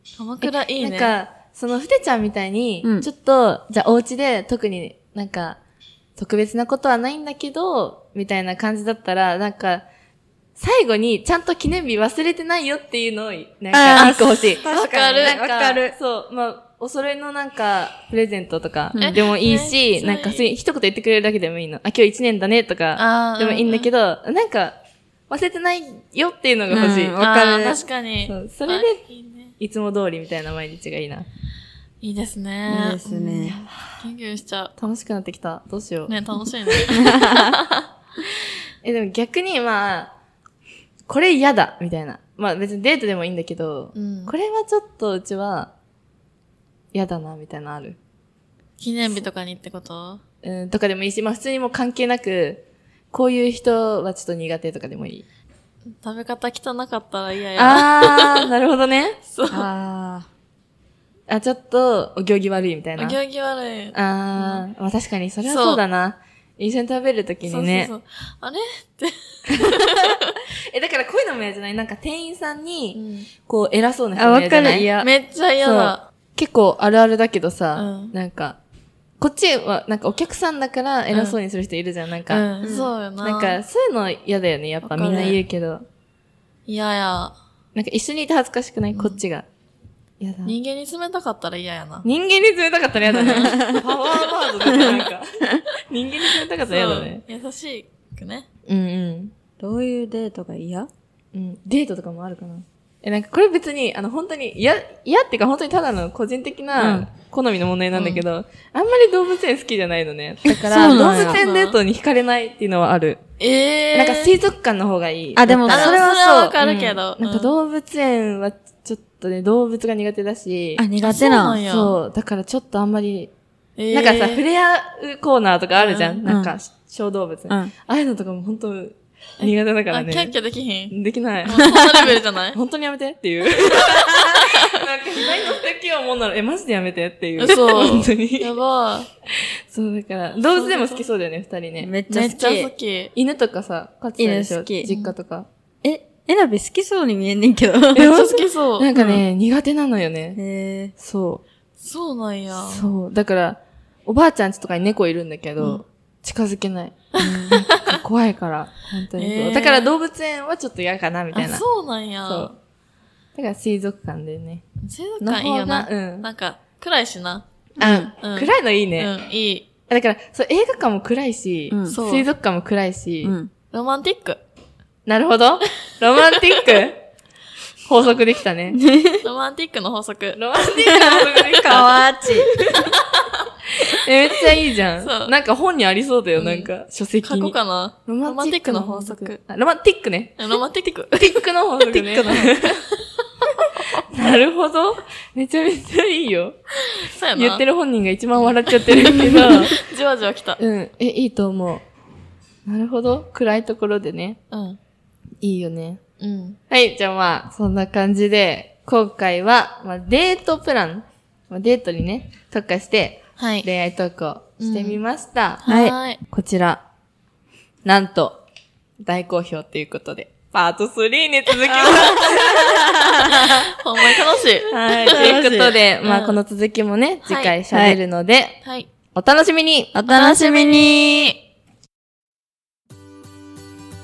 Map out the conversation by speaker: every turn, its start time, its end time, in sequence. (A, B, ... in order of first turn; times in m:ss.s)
0:00.2-0:01.1 A
0:00.4-0:05.6 B
0:06.2-0:09.8 B
0:10.6-0:24.8 B
0:13.7-0:16.0 C
0:14.0-0:15.4 A
0:19.0-0:20.5 A
0:23.0-0:23.9 A
0:25.3-0:27.2 B
0:26.7-0:27.8 C
0:27.2-0:29.5 A
0:28.3-0:29.0 B
0:29.6-0:31.3 B
0:32.0-0:34.7 A
0:32.7-0:33.6 C
0:34.8-0:37.0 B
0:36.1-0:37.9 A
0:37.0-0:37.6 C
0:38.8-0:40.1 B
0:41.1-0:45.7 B
0:44.0-0:44.3 A
0:46.9-0:48.0 B
0:48.8-0:50.2 A
0:50.4-0:55.3 B
0:56.0-0:58.5 A
0:57.6-0:59.2 B
0:59.3-0:59.7 A
0:59.5-1:00.3 C
1:01.3-1:03.2 B
1:03.0-1:04.6 A
1:03.9-1:07.9 B
1:05.4-1:05.8 A
1:07.4-1:10.4 A
1:10.7-1:14.9 B
1:12.9-1:13.3 A
1:14.2-1:15.1 C
1:15.0-1:16.1 A
1:15.6-1:18.6 B
1:17.7-1:18.1 A
1:19.2-1:22.5 B
1:21.1-1:21.4 A
1:22.3-1:23.6 A
1:22.6-1:22.9 C
1:23.2-1:25.8 B
1:24.8-1:25.4 A
1:25.0-1:25.4 C
1:26.7-1:27.4 A
1:27.8-1:29.4 B
1:28.9-1:29.2 A
1:30.2-1:30.6 B
1:30.4-1:32.1 A
1:32.0-1:37.2 B
1:33.2-1:33.6 A
1:33.4-1:33.8 C
1:34.2-1:35.0 A
1:36.6-1:38.5 A
1:38.7-1:39.3 B
1:39.6-1:40.9 C
1:41.3-1:53.2 B
1:46.8-1:47.1 C
1:47.9-1:48.2 A
1:50.5-1:51.4 C
1:50.7-1:51.8 A
1:53.4-1:54.4 A
1:53.9-1:56.0 B
1:55.4-1:56.6 C
1:55.7-1:57.6 A
1:56.6-2:00.8 B
2:00.8-2:01.6 C
2:01.0-2:02.0 A
2:01.7-2:03.3 B
2:03.8-2:04.4 A
2:03.9-2:10.4 B
2:05.8-2:06.2 A
2:06.3-2:06.5 C
2:09.4-2:12.6 A
2:10.9-2:11.7 B
2:12.5-2:18.6 B
2:13.7-2:14.8 A
2:17.4-2:19.1 A
2:19.7-2:21.9 B
2:20.4-2:21.1 A
2:21.8-2:22.7 C
2:22.1-2:23.1 A
2:23.1-2:25.5 B
2:24.2-2:24.9 C
2:24.8-2:25.2 A
2:25.8-2:28.2 C
2:28.0-2:30.4 B
2:28.1-2:29.2 A
2:30.4-2:30.9 C
2:31.0-2:31.4 B
2:31.8-2:32.8 A
2:32.5-2:41.6 B
2:37.2-2:38.0 A
2:37.2-2:37.7 C
2:39.2-2:39.9 A
2:41.3-2:42.6 A
2:42.2-2:42.5 B
2:43.4-2:44.6 B
2:44.8-2:47.4 A
2:45.2-2:46.3 B
2:47.8-2:49.1 B
2:47.8-2:48.1 C
2:48.2-2:49.7 A
2:49.9-2:53.4 B
2:51.7-2:52.0 C
2:51.9-2:52.3 A
2:53.2-2:53.5 C
2:53.7-2:54.4 A
2:55.1-2:57.0 B
2:57.9-2:58.8 B
2:58.8-2:59.2 C
2:59.2-3:00.4 A
3:00.4-3:02.8 B
3:00.8-3:02.5 C
3:03.8-3:10.4 B
3:05.0-3:05.3 A
3:06.4-3:06.7 A
3:07.2-3:09.4 A
3:10.4-3:13.8 A
3:11.2-3:12.8 B
3:14.1-3:16.6 B
3:16.9-3:17.6 A
3:17.3-3:19.7 B
3:18.4-3:20.6 A
3:20.6-3:21.8 B
3:22.7-3:24.4 B
3:24.5-3:24.8 A
3:25.4-3:26.0 B
3:26.2-3:26.6 A
3:26.7-3:35.6 B
3:33.4-3:33.7 A
3:34.6-3:35.0 A
3:35.6-3:36.2 A
3:35.7-3:35.9 C
3:36.3-3:36.8 B
3:37.8-3:38.4 B
3:39.0-3:42.9 B
3:41.7-3:43.2 C
3:43.2-3:45.4 A
3:44.7-3:48.6 B
3:45.1-3:45.8 C
3:46.0-3:46.4 A
3:47.2-3:47.6 A
3:47.7-3:48.0 C
3:48.6-3:48.9 A
3:49.2-3:50.0 B
3:49.9-3:51.4 C
3:50.1-3:51.4 A